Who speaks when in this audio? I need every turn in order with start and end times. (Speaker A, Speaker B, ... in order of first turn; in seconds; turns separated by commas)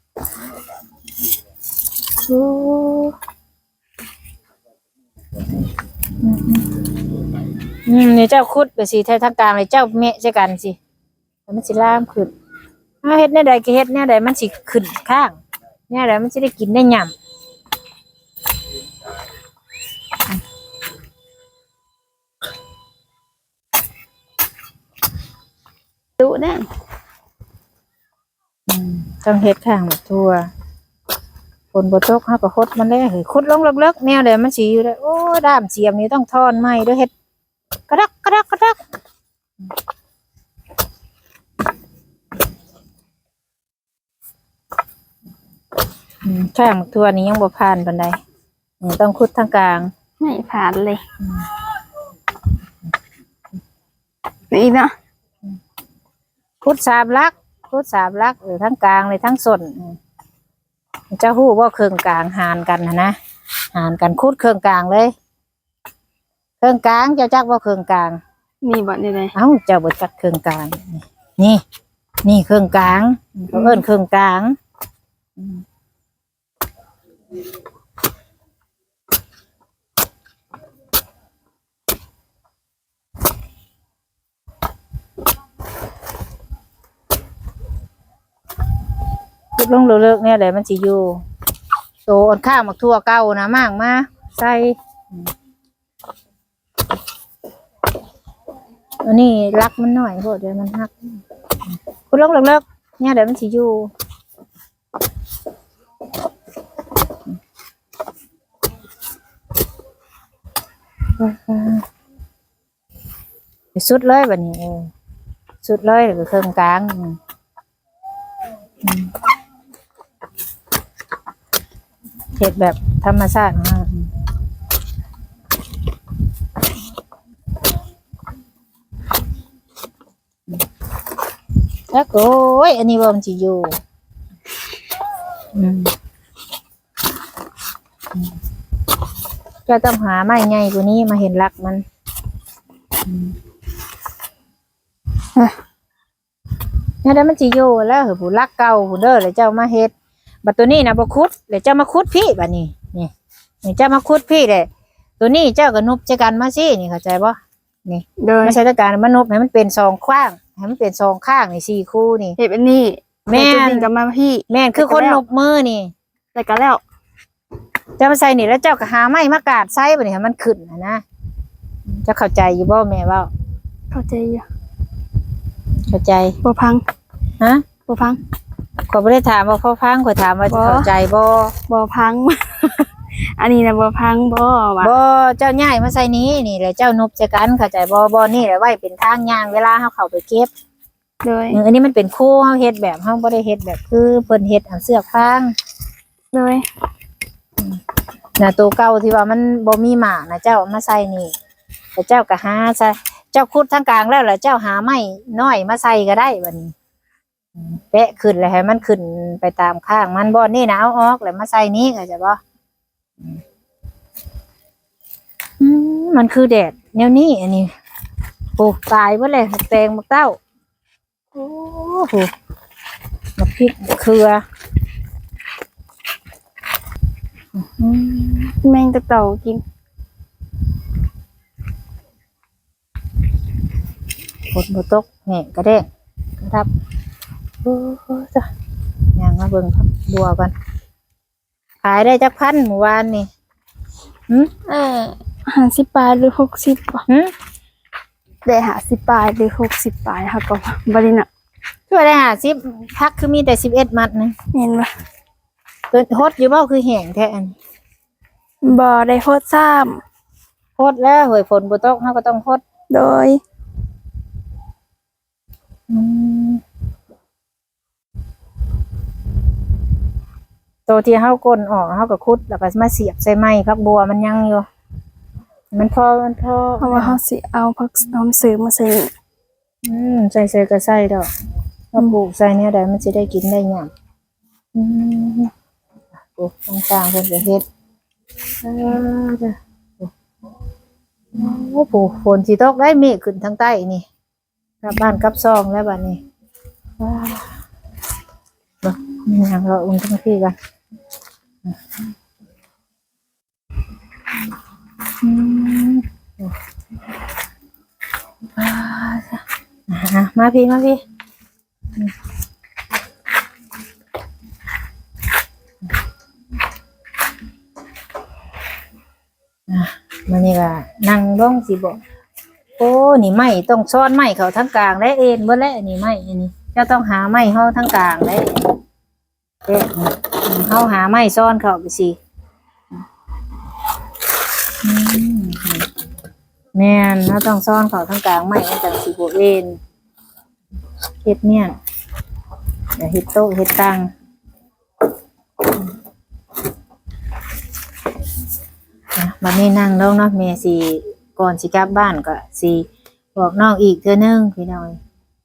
Speaker A: 2.2-3.2, Speaker A: 6.2-6.7, Speaker A: 7.9-10.8, Speaker A: 11.5-12.3, Speaker A: 13.0-15.4, Speaker A: 15.9-17.1, Speaker B: 26.2-26.7, Speaker A: 28.7-30.5, Speaker A: 31.7-37.1, Speaker A: 37.9-38.8, Speaker A: 46.2-48.2, Speaker A: 48.8-49.9, Speaker B: 50.2-51.0, Speaker B: 54.5-54.9, Speaker A: 56.6-60.0, Speaker A: 61.1-63.2, Speaker A: 63.7-65.1, Speaker A: 66.6-68.2, Speaker B: 68.6-69.3, Speaker A: 69.3-71.6, Speaker A: 72.2-74.6, Speaker B: 73.5-73.8, Speaker A: 75.4-75.6, Speaker A: 89.6-91.2, Speaker A: 92.1-95.3, Speaker A: 99.0-101.2, Speaker A: 102.1-103.9, Speaker A: 111.2-111.9, Speaker A: 113.7-114.9, Speaker A: 115.6-117.2, Speaker A: 118.8-119.1, Speaker A: 122.4-124.1, Speaker A: 131.9-133.8, Speaker A: 135.5-135.9, Speaker A: 139.7-141.8, Speaker A: 143.1-143.3, Speaker A: 147.0-149.9, Speaker A: 150.4-153.1, Speaker A: 153.6-154.7, Speaker A: 155.2-162.4, Speaker B: 158.2-158.6, Speaker B: 162.4-165.2, Speaker A: 163.3-163.9, Speaker A: 164.5-165.9, Speaker B: 166.3-166.8, Speaker A: 168.0-171.0, Speaker A: 172.0-173.3, Speaker B: 173.9-174.5, Speaker A: 175.9-176.4, Speaker B: 176.4-176.8, Speaker A: 177.4-177.7, Speaker B: 177.9-178.2, Speaker A: 178.9-181.5, Speaker B: 180.5-180.9, Speaker B: 181.7-184.9, Speaker A: 184.8-190.5, Speaker B: 191.2-191.6, Speaker A: 191.5-195.5, Speaker B: 196.3-196.7, Speaker A: 198.4-201.3, Speaker A: 202.0-206.8, Speaker A: 207.6-212.4, Speaker A: 215.6-217.7, Speaker A: 218.6-220.4, Speaker A: 221.3-222.3, Speaker A: 223.4-224.4, Speaker A: 227.6-228.6, Speaker B: 228.6-229.6, Speaker A: 234.5-235.9, Speaker A: 236.4-236.7, Speaker A: 237.6-238.5, Speaker A: 239.2-240.5, Speaker A: 241.8-243.3, Speaker B: 244.7-247.1, Speaker A: 247.1-247.3, Speaker B: 248.4-251.3, Speaker A: 251.9-254.3, Speaker B: 254.5-254.9, Speaker A: 255.9-257.6, Speaker B: 258.6-260.0, Speaker A: 260.8-262.6, Speaker B: 262.9-263.4, Speaker A: 265.9-266.6, Speaker A: 270.9-274.7, Speaker A: 275.7-277.2, Speaker B: 276.8-279.1, Speaker A: 279.8-281.3, Speaker A: 281.9-283.9, Speaker A: 284.7-285.5, Speaker A: 286.4-287.6, Speaker A: 288.6-290.1, Speaker A: 291.3-294.1, Speaker A: 294.8-296.2, Speaker A: 297.0-297.5, Speaker A: 298.8-300.6, Speaker A: 305.2-306.5, Speaker A: 308.5-311.0, Speaker A: 319.7-322.0, Speaker A: 322.8-328.7, Speaker A: 329.7-332.2, Speaker A: 334.8-335.9, Speaker A: 336.8-339.8, Speaker A: 341.2-341.8, Speaker A: 343.0-344.1, Speaker A: 349.2-355.0